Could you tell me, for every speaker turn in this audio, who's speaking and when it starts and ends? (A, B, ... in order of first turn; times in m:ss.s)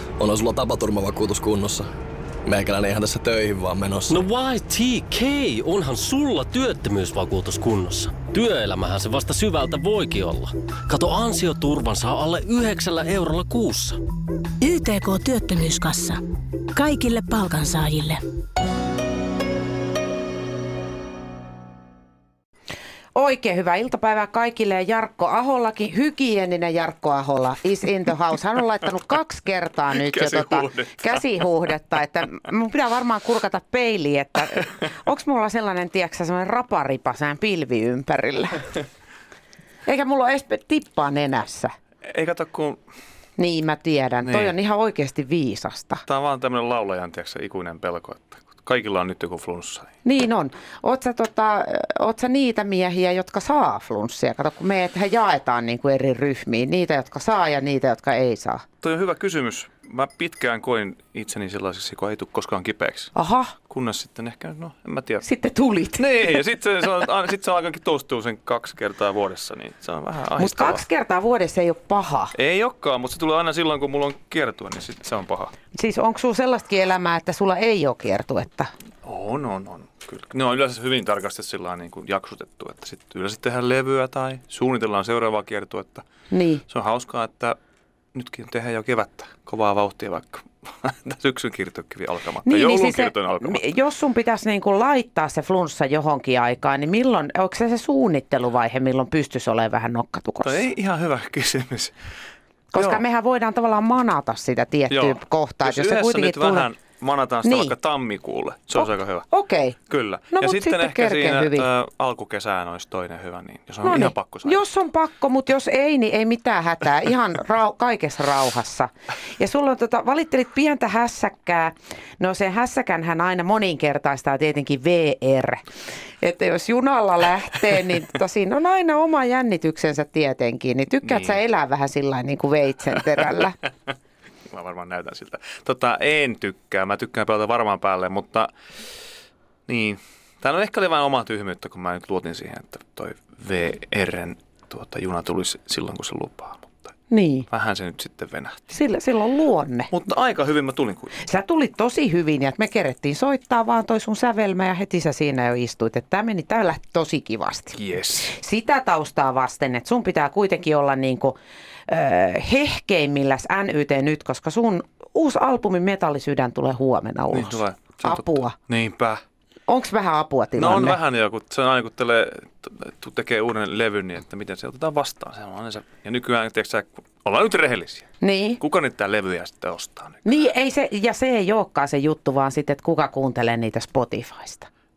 0:00.2-0:01.9 A
0:02.5-0:04.3 A
0:04.1-0:14.0 B
0:14.6-0:16.2 C
0:16.8-0:18.2 C
0:23.1-0:38.7 D
0:29.9-0:31.4 E
0:39.9-0:41.7 D
0:42.0-0:42.8 E
0:43.4-0:46.0 D
0:44.2-0:44.5 E
0:46.1-0:49.9 E
0:50.0-0:58.6 D
0:58.8-1:03.1 E
1:03.1-1:03.6 D
1:03.7-1:05.2 E
1:05.2-1:06.4 D
1:06.0-1:10.8 E
1:10.4-1:12.3 D
1:12.3-1:15.5 E
1:15.7-1:18.7 D
1:19.0-1:26.0 E
1:26.3-1:26.6 D
1:26.7-1:27.6 E
1:28.1-1:33.7 E
1:32.4-1:40.7 D
1:40.4-1:41.9 E
1:42.7-1:46.7 D
1:42.8-1:43.0 E
1:44.9-1:49.3 E
1:47.4-1:47.7 D
1:48.8-1:49.8 D
1:49.9-1:54.6 E
1:50.3-1:51.7 D
1:53.8-2:05.6 D
2:06.2-2:13.6 D
2:11.0-2:11.4 E
2:14.5-2:18.5 E
2:19.7-2:26.9 E
2:27.1-2:27.5 D
2:27.5-2:28.8 E
2:28.7-2:29.9 D
2:29.9-2:31.1 E
2:31.2-2:48.6 D
2:37.8-2:38.3 E
2:47.3-2:49.2 E
2:49.7-2:51.0 D
2:50.6-3:00.2 E
2:58.2-2:58.6 D
3:00.2-3:04.7 D